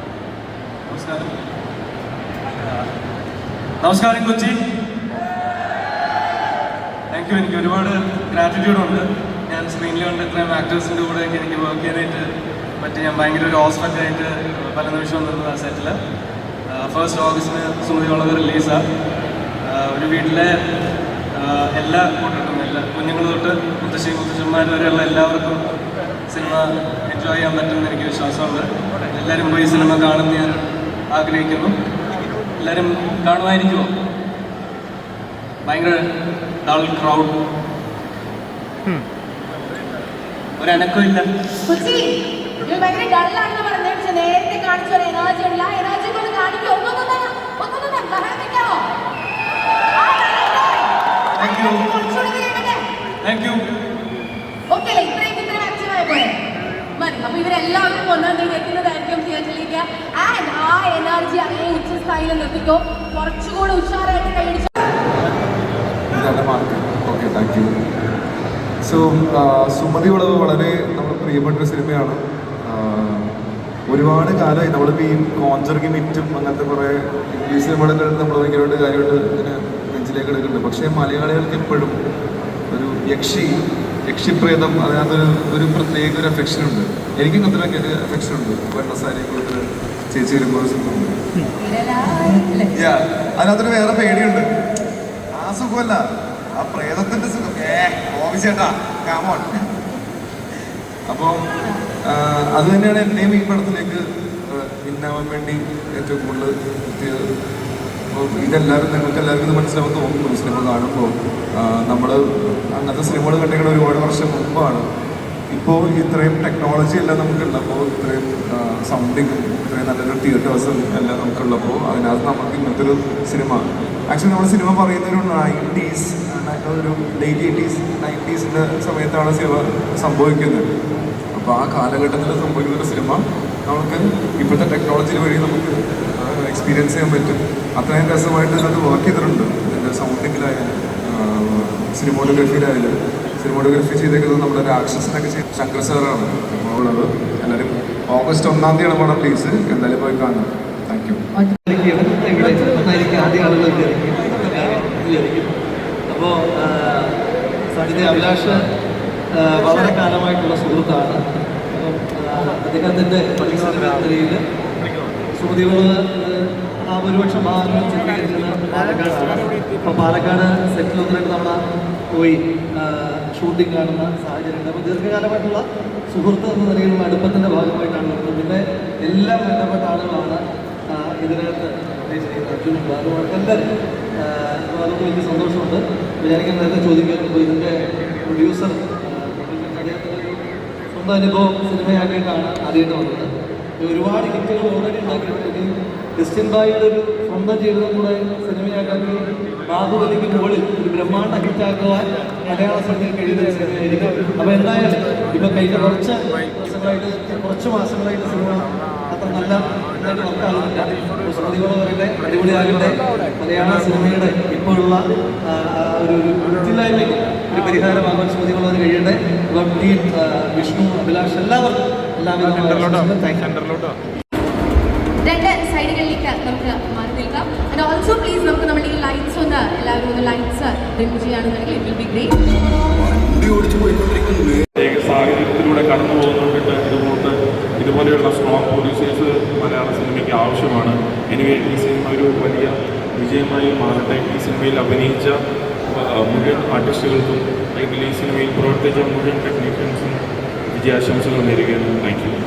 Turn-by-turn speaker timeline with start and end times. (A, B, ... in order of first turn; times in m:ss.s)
0:00.9-0:01.3 A
0:03.8-0:04.5 A
0:07.1-0:12.2 A
0:12.8-0:15.9 A
0:16.7-0:18.8 A
0:19.6-0:20.5 A
0:21.3-0:25.6 A
0:26.3-0:30.6 A
0:31.1-0:31.7 A
0:32.6-0:33.9 A
0:35.6-0:36.0 A
0:36.6-0:37.3 A
0:40.6-0:41.2 A
0:41.7-0:48.9 B
0:49.9-0:52.8 B
0:51.4-0:51.8 A
0:53.2-0:53.6 A
0:54.7-0:56.4 B
0:57.0-1:04.7 B
1:06.1-1:07.7 C
1:08.8-1:13.3 C
1:13.9-1:22.0 C
1:22.7-1:23.5 C
1:24.1-1:31.2 C
1:31.6-1:32.7 B
1:32.7-1:34.4 C
1:35.4-1:36.0 C
1:36.6-1:39.6 C
1:41.1-1:41.5 C
1:42.1-1:47.2 C
1:48.1-1:54.8 C
1:55.5-2:10.6 C
2:11.4-2:31.2 C
2:31.6-2:35.5 D
2:36.1-2:37.1 D
2:37.7-2:38.6 D
2:39.3-2:44.4 D
2:45.4-2:51.6 D
2:52.1-3:00.4 D
3:00.9-3:10.4 D
3:10.9-3:13.3 D
3:13.8-3:35.0 D
3:35.5-3:43.4 D
3:45.2-3:52.3 B
3:53.0-3:54.5 C
3:54.8-4:05.3 E
4:05.9-4:10.2 E
4:10.7-4:12.3 E